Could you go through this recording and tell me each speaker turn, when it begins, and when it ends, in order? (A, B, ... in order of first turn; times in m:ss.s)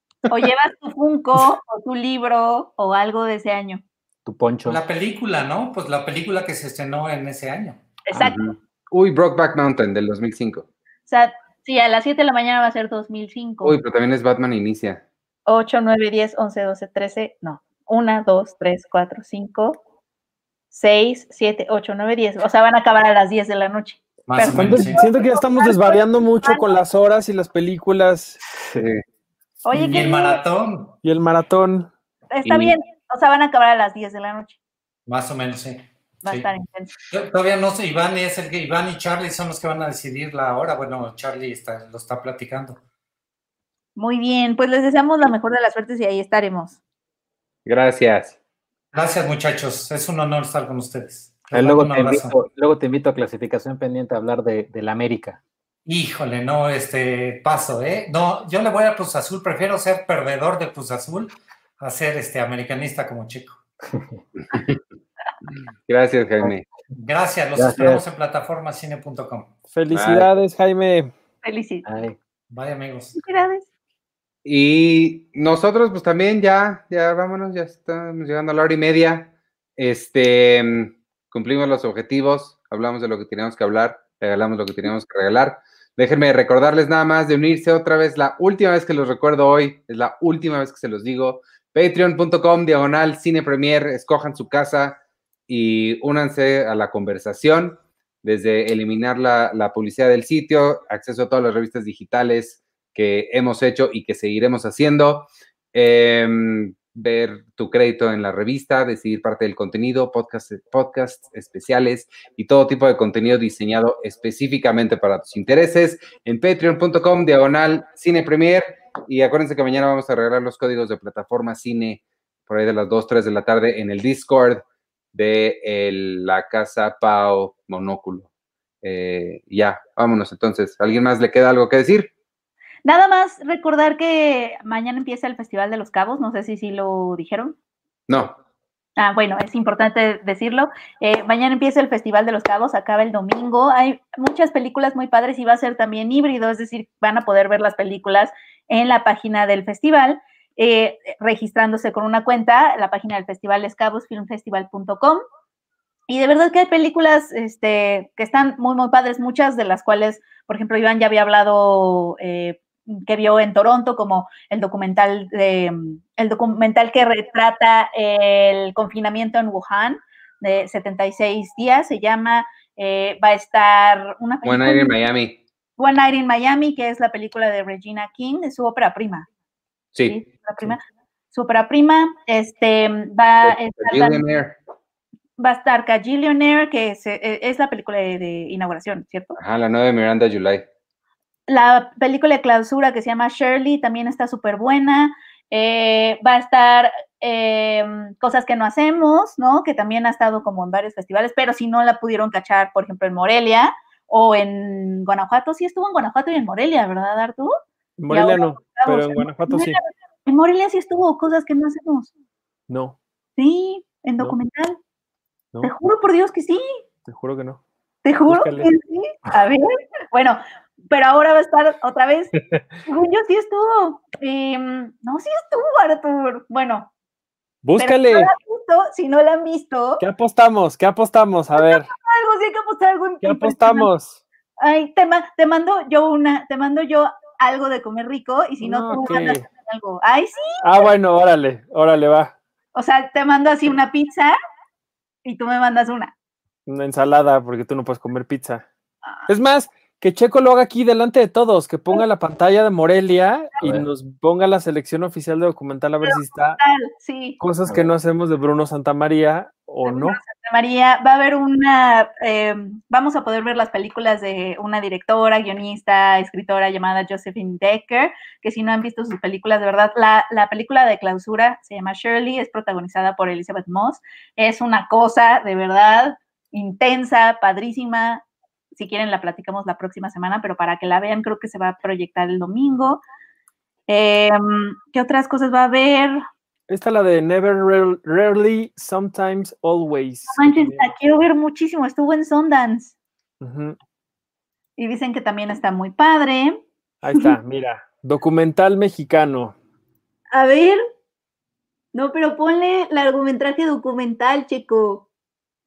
0:00.3-0:03.8 A
0:04.3-0:04.8 B
0:04.7-0:07.8 C
0:08.1-0:08.4 A
0:08.2-0:10.7 D
0:11.1-0:13.8 A
0:13.6-0:15.0 D
0:15.5-0:19.8 A
0:20.7-0:26.7 A
0:24.3-0:25.0 C
0:24.5-0:28.4 E
0:28.8-0:29.0 D
0:29.6-0:30.4 A
0:29.8-0:30.0 E
0:29.9-0:31.0 C
0:31.0-0:31.9 E
0:32.3-0:34.6 A
0:32.5-0:32.7 D
0:35.1-0:36.5 C
0:36.2-0:36.9 A
0:37.1-0:42.8 C
0:44.0-0:46.8 A
0:47.7-0:48.4 D
0:48.9-0:52.4 C
0:51.5-0:55.4 B
0:55.9-1:03.6 C
1:04.5-1:04.8 D
1:05.9-1:06.6 D
1:07.0-1:09.5 C
1:07.6-1:08.0 B
1:09.7-1:11.1 E
1:09.9-1:10.3 D
1:11.4-1:11.9 A
1:11.8-1:12.2 B
1:12.5-1:13.2 C
1:13.2-1:13.6 A
1:14.4-2:08.3 D
2:08.8-2:12.1 D
2:12.8-2:17.6 A
2:18.1-2:18.4 D
2:19.0-2:35.2 A
2:36.1-2:55.0 A
2:54.4-2:55.4 D
2:55.8-2:59.3 A
3:00.0-3:04.2 A
3:03.4-3:04.6 D
3:05.4-3:09.4 A
3:09.4-3:10.7 D
3:11.5-3:27.5 A
3:28.0-3:29.8 E
3:28.1-3:32.1 A
3:32.7-3:33.0 E
3:33.4-3:34.8 A
3:35.6-3:36.6 A
3:37.1-3:37.6 E
3:38.0-3:42.3 A
3:38.3-3:38.7 E
3:42.9-3:46.9 A
3:47.6-3:48.3 E
3:47.8-3:50.0 A
3:50.0-3:51.9 E
3:51.6-3:53.9 A
3:53.2-3:54.2 E
3:54.6-4:00.8 A
3:58.6-3:59.5 E
4:00.6-4:02.4 E
4:02.8-4:04.4 A
4:05.2-4:06.1 A
4:06.7-4:08.7 E
4:09.3-4:16.6 E
4:13.6-4:13.9 B
4:16.0-4:17.4 A
4:17.4-4:20.2 E
4:19.8-4:38.2 A
4:38.8-4:43.0 A
4:43.9-4:46.2 A
4:46.7-4:50.9 E
4:50.3-4:53.0 A
4:53.4-4:53.8 E
4:54.8-4:56.6 A
4:57.0-4:59.6 E
5:00.3-5:00.8 A
5:01.9-5:05.1 A